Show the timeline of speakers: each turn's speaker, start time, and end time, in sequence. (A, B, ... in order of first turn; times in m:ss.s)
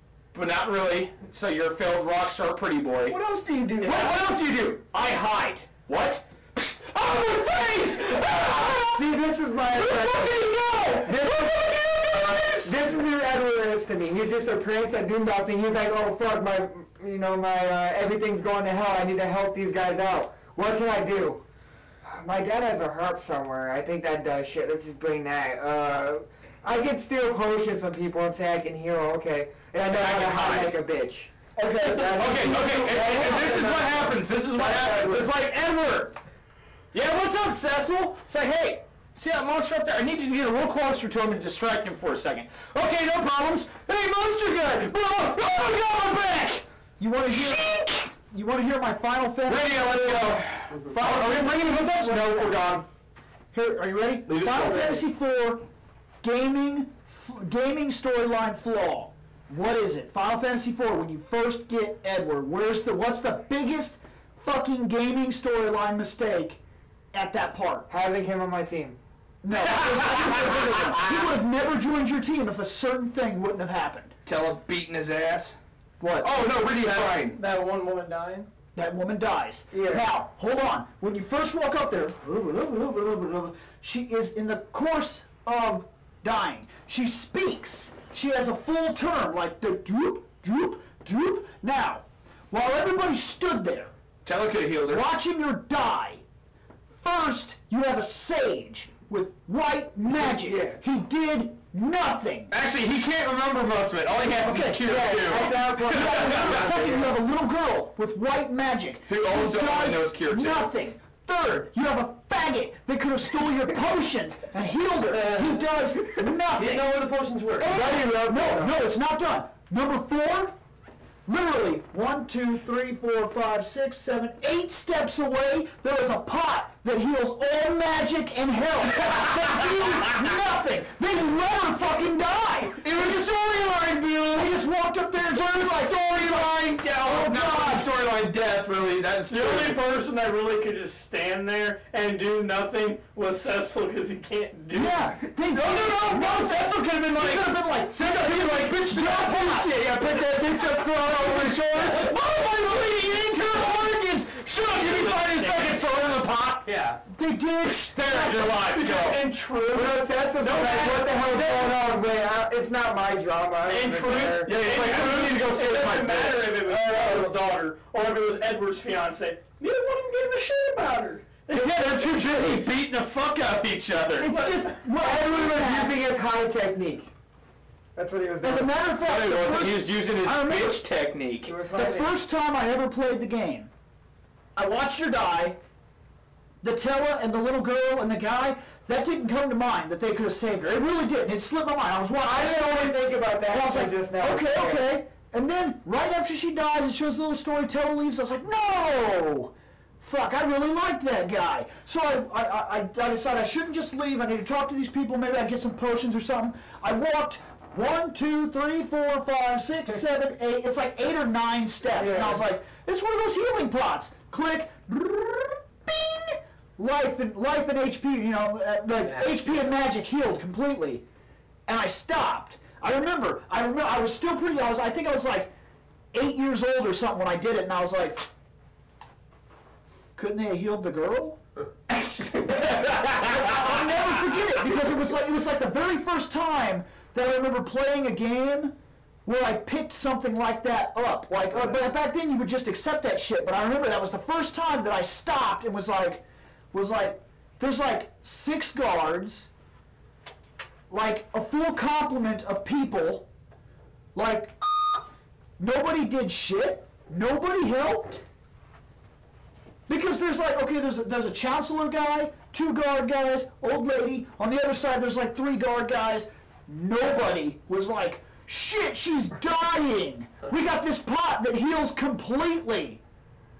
0:00.3-0:03.2 A
0:03.1-0:04.2 B
0:03.8-0:09.1 A
0:08.9-0:10.5 C
0:09.7-0:12.8 A
0:11.1-0:11.5 B
0:12.6-0:21.4 C
0:22.0-0:35.3 C
0:29.9-0:30.8 A
0:31.6-0:33.7 B
0:32.1-0:36.2 A
0:36.9-0:46.6 A
0:47.0-0:52.5 B
0:47.3-0:48.1 A
0:49.5-0:52.9 A
0:53.5-0:55.7 B
0:54.3-0:55.0 A
0:56.2-1:06.6 B
1:07.1-1:07.9 B
1:07.9-1:09.0 C
1:09.4-1:14.1 B
1:14.3-1:15.6 A
1:16.0-1:16.8 B
1:16.2-1:17.4 A
1:16.8-1:18.5 D
1:18.8-1:33.9 B
1:19.7-1:20.0 C
1:34.2-1:35.1 A
1:34.9-1:36.2 B
1:37.0-1:42.5 B
1:40.1-1:40.8 C
1:42.5-1:46.8 A
1:44.4-1:57.0 B
1:44.8-1:47.2 C
1:49.1-1:50.7 A
1:55.1-1:55.7 E
1:56.5-1:57.8 E
1:57.6-2:00.6 B
1:57.7-1:58.7 A
2:01.3-2:13.3 B
2:12.7-2:14.6 A
2:14.3-2:17.9 B
2:15.2-2:19.8 A
2:19.3-2:25.2 D
2:24.7-2:29.8 B
2:25.5-2:36.7 A
2:31.7-2:32.2 E
2:34.7-2:35.9 E
2:36.6-2:37.0 E
2:37.1-2:38.5 B
2:37.6-2:39.3 A
2:38.1-2:41.7 D
2:39.7-2:44.6 C
2:40.4-2:41.7 A
2:43.6-2:52.7 D
2:44.3-2:47.2 A
2:51.5-2:54.4 A
2:54.2-2:56.0 B
2:54.8-2:57.1 C
2:58.0-2:58.7 C
2:58.4-3:00.9 B
2:58.9-3:01.6 A
3:01.4-3:02.1 C
3:01.7-3:03.7 B
3:04.6-3:05.6 B
3:06.6-3:41.0 B
3:12.2-3:14.8 C
3:32.0-3:32.4 C
3:39.0-3:39.7 E
3:41.7-3:45.5 B
3:46.1-3:48.3 B
3:50.2-4:09.5 B
3:52.9-3:53.2 A
4:10.9-4:13.3 B
4:14.2-4:15.0 B
4:15.6-4:18.2 B
4:19.9-4:33.0 B